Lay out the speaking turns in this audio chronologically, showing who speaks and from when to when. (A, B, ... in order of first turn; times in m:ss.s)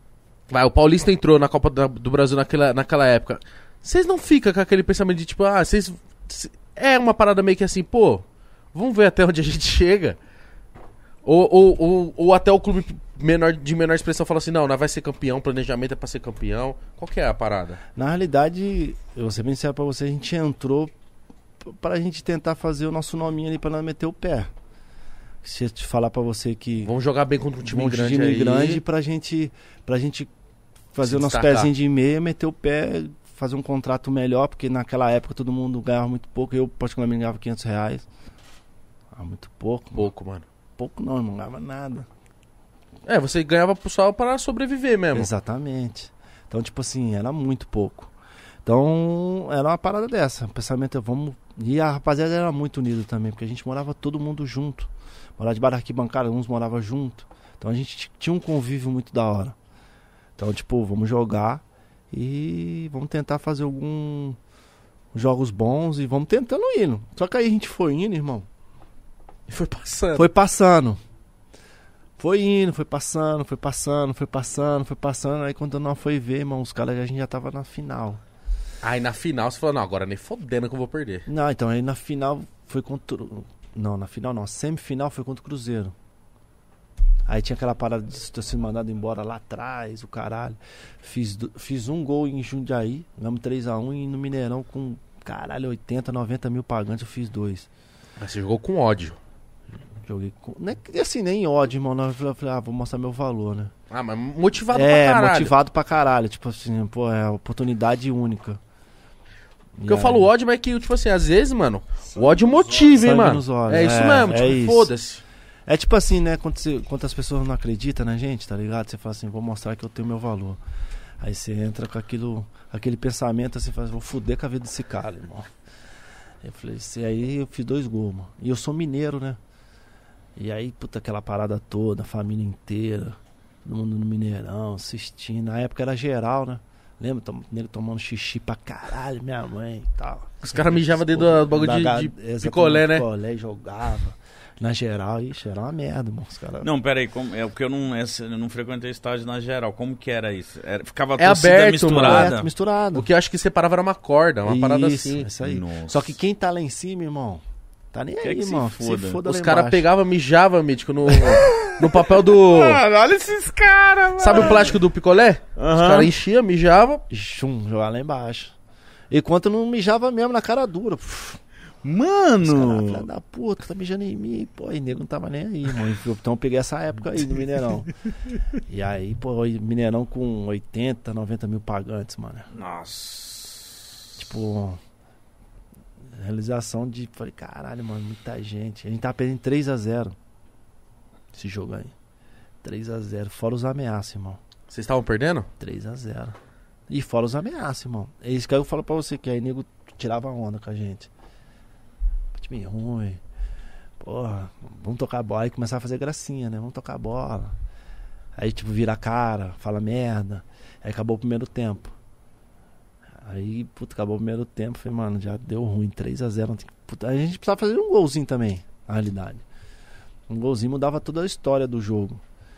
0:00.5-0:10.2 A
0:11.2-0:17.8 A
0:17.9-0:20.9 B
0:21.6-0:24.5 B
0:25.4-0:26.9 B
0:26.8-0:28.8 A
0:27.6-0:30.3 B
0:30.9-0:38.0 B
0:31.0-0:31.7 A
0:39.1-0:40.1 B
0:39.9-0:40.4 A
0:40.8-0:42.1 B
0:43.0-0:45.3 A
0:45.1-0:48.1 B
0:48.6-0:59.6 B
1:00.4-1:04.4 B
1:05.1-1:08.4 B
1:09.5-1:10.3 A
1:10.1-1:11.0 B
1:12.2-1:18.2 B
1:18.8-1:21.2 A
1:21.2-1:25.9 B
1:27.3-1:37.7 B
1:38.2-1:39.2 A
1:40.0-1:43.7 B
1:43.9-1:45.5 A
1:44.7-1:48.6 B
1:49.8-1:50.3 B
1:49.8-1:55.2 A
1:52.2-1:53.0 C
1:53.0-1:54.9 B
1:55.7-2:00.6 B
2:01.2-2:05.5 B
2:06.4-2:09.4 B
2:10.4-2:26.7 B
2:20.4-2:23.0 A
2:26.6-2:32.5 C
2:31.2-2:32.3 A
2:31.9-2:33.1 B
2:32.9-2:35.3 A
2:34.4-2:39.8 B
2:35.4-2:36.1 C
2:38.2-2:39.2 C
2:39.2-2:42.8 A
2:41.1-2:44.8 C
2:44.2-2:47.0 A
2:45.6-2:46.1 C
2:47.1-2:48.5 B
2:49.1-2:51.4 B
2:51.8-2:53.1 C
2:52.4-2:57.9 B
2:58.7-3:02.5 B
3:02.5-3:03.8 C
3:04.2-3:04.8 B
3:06.1-3:10.1 B
3:11.3-3:11.9 B
3:12.6-3:14.4 B
3:14.7-3:15.5 A
3:15.6-3:16.4 B
3:16.9-3:21.1 B
3:22.3-3:23.2 B
3:24.0-3:27.6 B
3:28.4-3:31.9 B
3:33.2-3:39.4 B
3:40.3-3:42.2 B